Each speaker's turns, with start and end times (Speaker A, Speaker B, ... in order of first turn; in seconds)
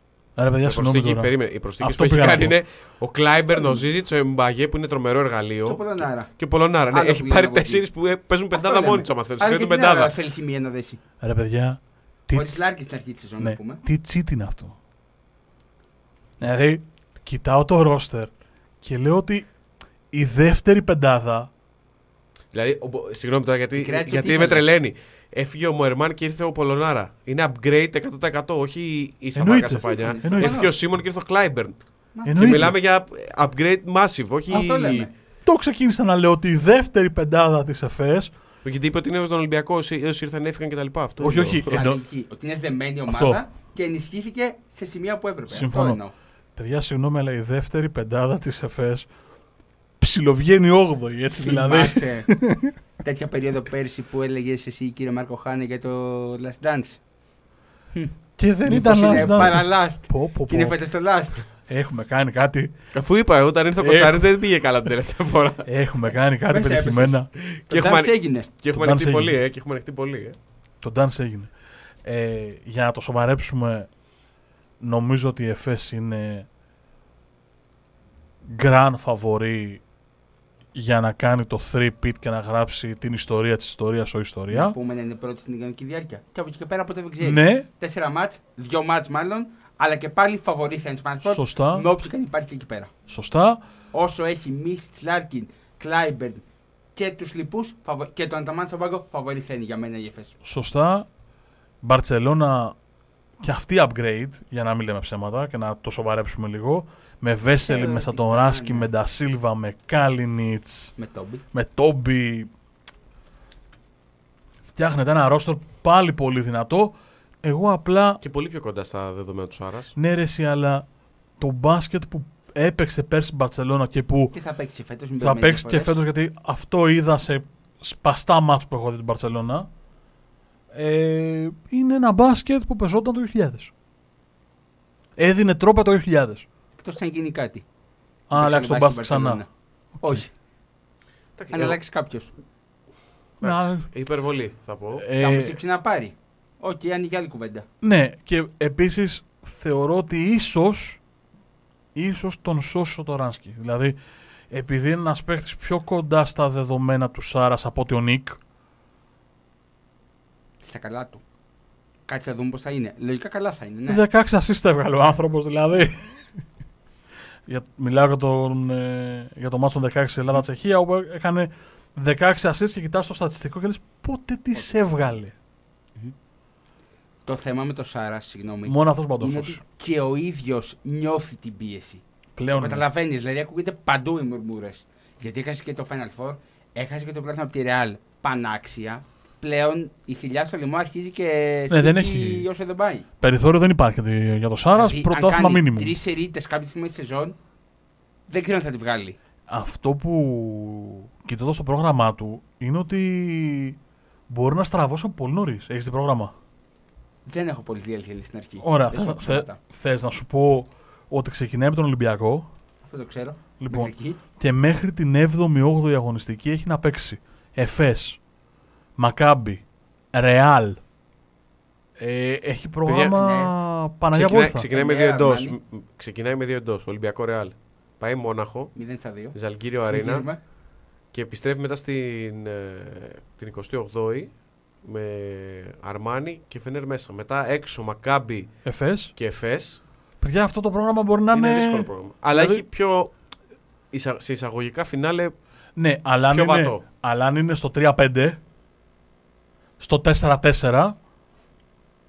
Speaker A: 0.4-2.5, 11.2-12.6, 13.4-14.8, 16.4-18.3, 18.8-19.5, 20.1-21.5, 29.3-30.6, 32.2-32.7, 35.4-38.3, 41.2-42.0, 43.1-43.4, 45.5-46.0, 46.5-49.1, 50.0-52.7, 58.4-60.8, 61.6-62.7, 63.8-64.3, 65.6-67.3, 68.7-69.4, 70.8-71.5, 72.0-73.9, 74.8-76.5, 78.5-79.8, 80.7-84.7, 87.2-87.7, 91.2-91.8, 93.1-93.6, 100.4-101.1, 101.8-102.8, 103.4-110.9, 111.5-112.5, 114.7-118.2, 120.0-120.8, 121.4-124.3, 125.2-129.7, 130.7-133.7, 135.2-136.4, 138.3-139.4, 143.4-143.9, 145.0-145.5, 147.8-151.0, 151.9-153.9, 154.5-158.4, 163.9-166.3, 167.5-175.3, 178.7-179.6, 182.3-182.8, 191.7-192.4, 193.2-195.9, 199.5-203.8, 204.3-206.3, 208.6-212.5, 213.6-218.2, 219.0-220.8, 222.0-224.7, 238.6-239.1, 240.2-242.6, 245.8-248.4, 249.8-250.9
Speaker B: 0.6-10.1, 22.5-35.1, 38.6-41.8, 62.9-65.7, 67.4-70.4, 118.2-119.9, 141.3-141.8, 143.4-145.0, 222.8-223.2, 224.1-228.7, 229.3-230.2, 231.1-238.6, 239.2-239.8, 241.3-243.1, 243.9-245.3, 246.3-246.8
Speaker C: 3.5-3.8, 5.6-6.3, 6.9-7.8, 8.5-11.0, 12.3-13.8, 23.7-24.6, 29.8-30.7, 32.1-32.7, 34.5-35.1, 41.6-46.1, 51.4-52.3, 53.0-57.0, 57.9-61.5, 66.5-68.5, 84.5-92.9, 93.9-96.4, 97.0-100.3, 107.6-108.9, 111.0-111.4, 124.3-126.0, 136.7-137.6, 138.3-139.5, 140.0-140.3, 141.5-142.3, 145.2-147.7, 160.6-161.2, 162.1-164.0, 177.2-193.1, 194.8-197.3, 198.3-199.2, 207.3-209.6, 212.8-214.2, 223.1-223.5, 224.7-225.5, 228.7-230.4